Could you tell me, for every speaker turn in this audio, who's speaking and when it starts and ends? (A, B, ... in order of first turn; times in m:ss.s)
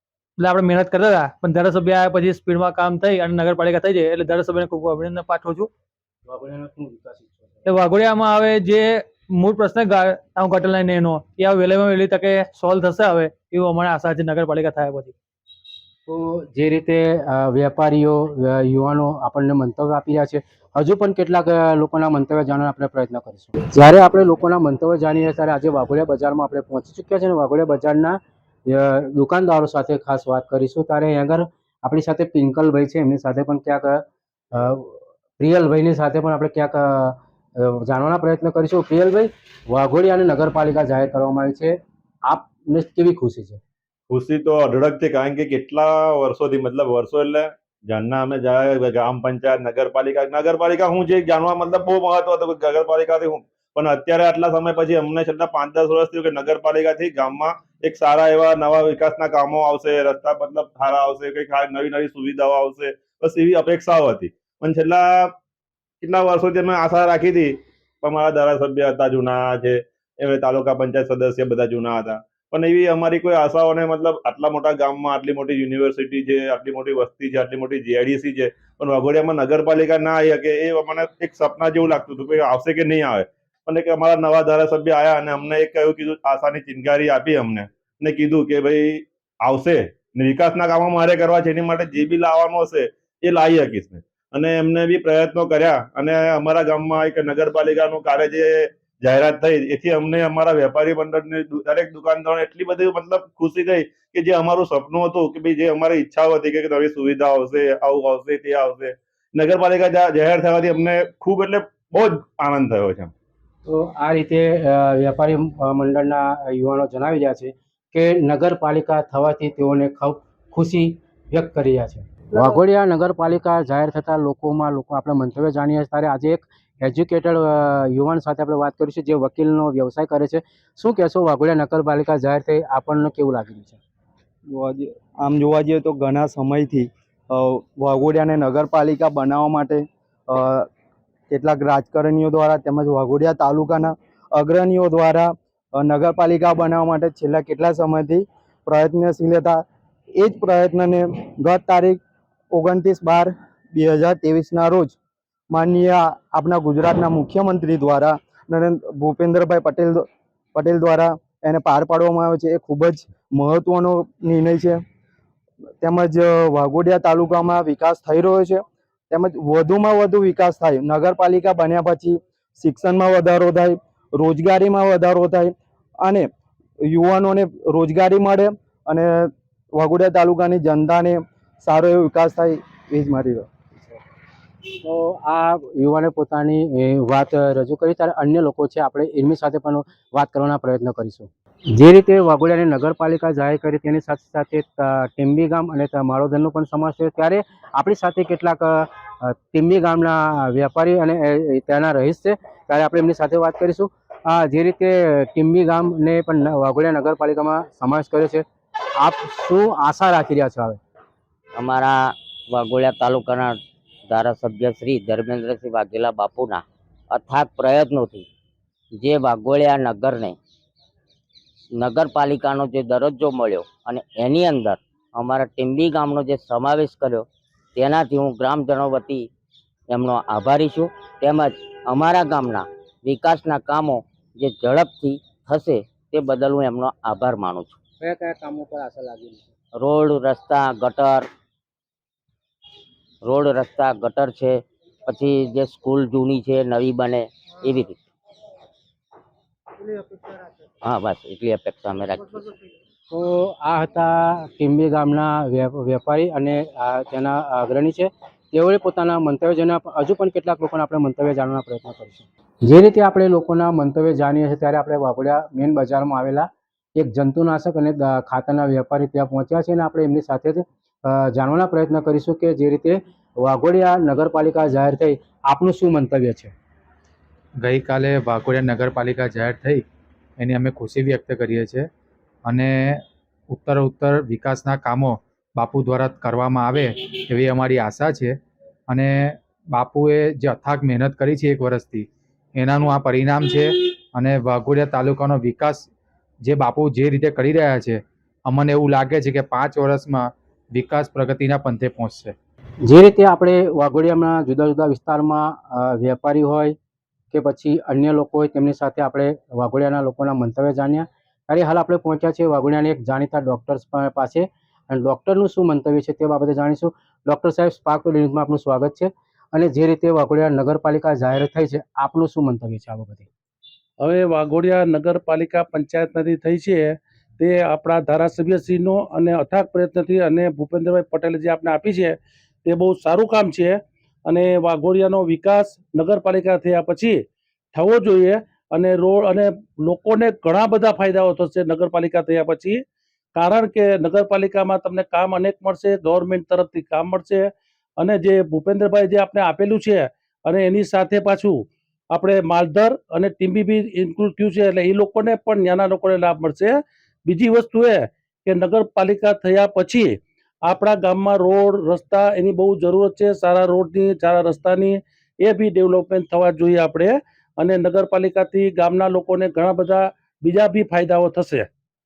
0:00.4-0:05.7 A
0:06.3-0:07.7 B
0:07.7-0:15.1 A
0:16.1-0:43.6 B
0:44.1-1:05.4 C
1:06.0-1:53.1 C
1:53.7-2:13.8 B
2:14.5-2:20.7 D
2:21.3-2:29.6 D
2:30.2-2:32.0 D
2:32.5-2:35.0 D
2:35.5-2:44.8 D
2:45.8-2:56.3 D
2:56.8-3:03.5 D
3:04.8-3:28.4 B
3:29.0-3:30.8 B
3:31.6-3:33.6 E
3:34.1-3:38.3 E
3:39.0-3:40.4 E
3:41.8-3:49.3 E
3:49.9-3:57.8 E
3:58.0-3:59.5 B
3:59.8-4:01.3 E
4:03.2-4:08.0 E
4:10.8-4:12.5 E
4:13.1-4:36.5 B
4:37.6-4:39.8 F
4:40.4-4:41.9 F
4:42.5-4:48.3 F
4:48.9-4:52.1 F
4:52.6-4:55.9 F
4:56.5-5:02.3 F
5:02.8-5:06.8 B
5:07.3-5:23.3 B
5:24.0-5:37.2 G
5:37.7-5:42.8 G
5:43.4-5:47.5 G
5:48.0-5:51.6 G
5:52.1-5:56.8 G
5:57.3-6:11.7 G